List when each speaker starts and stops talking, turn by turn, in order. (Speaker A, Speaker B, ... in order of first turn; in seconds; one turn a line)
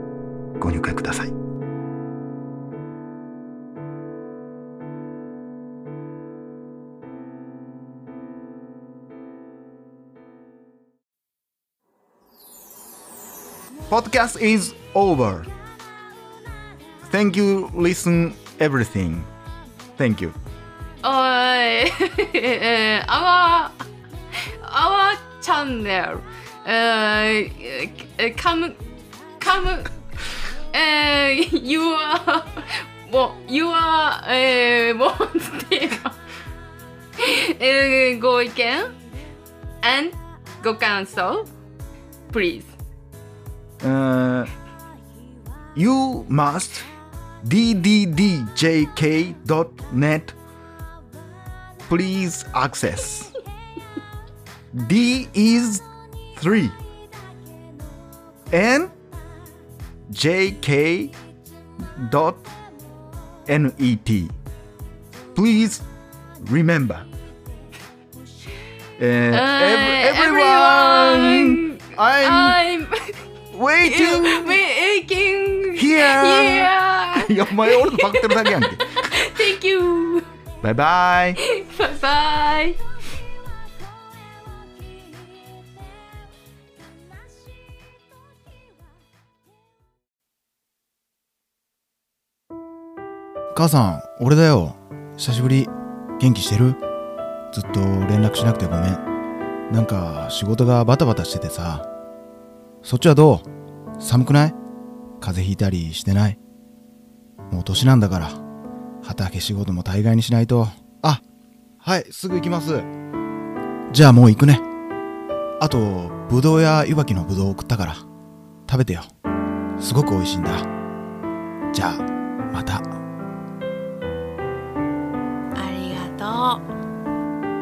Speaker A: 0.6-1.3
Speaker A: 13.9-15.5
Speaker A: 17.1-19.3
Speaker A: 20.0-20.4
Speaker B: 21.0-23.8
Speaker B: 24.4-28.8
Speaker B: 29.4-29.9
Speaker B: 30.7-36.2
Speaker B: 37.2-38.9
Speaker B: 39.8-41.5
Speaker B: 42.3-42.8
Speaker A: 43.8-44.5
Speaker A: 45.8-46.9
Speaker A: 47.4-50.4
Speaker A: 51.9-53.3
Speaker A: 54.7-56.8
Speaker A: 58.5-58.9
Speaker A: 60.1-61.1
Speaker A: 62.0-62.5
Speaker A: 63.5-64.3
Speaker A: 65.3-65.8
Speaker A: 66.4-67.1
Speaker A: 69.0-72.6
Speaker B: 69.3-73.2
Speaker A: 73.5-74.6
Speaker B: 73.8-80.3
Speaker A: 75.8-79.0
Speaker A: 80.6-81.4
Speaker B: 81.4-82.8
Speaker A: 93.5-96.8
Speaker A: 97.5-99.0
Speaker A: 99.7-101.9
Speaker A: 102.8-103.5
Speaker A: 104.0-104.6
Speaker A: 105.2-106.4
Speaker A: 107.5-108.4
Speaker A: 109.0-111.2
Speaker A: 111.8-112.9
Speaker A: 113.9-114.7
Speaker A: 115.6-118.0
Speaker A: 118.7-119.1
Speaker A: 119.8-120.7
Speaker A: 121.7-122.9
Speaker B: 125.6-126.7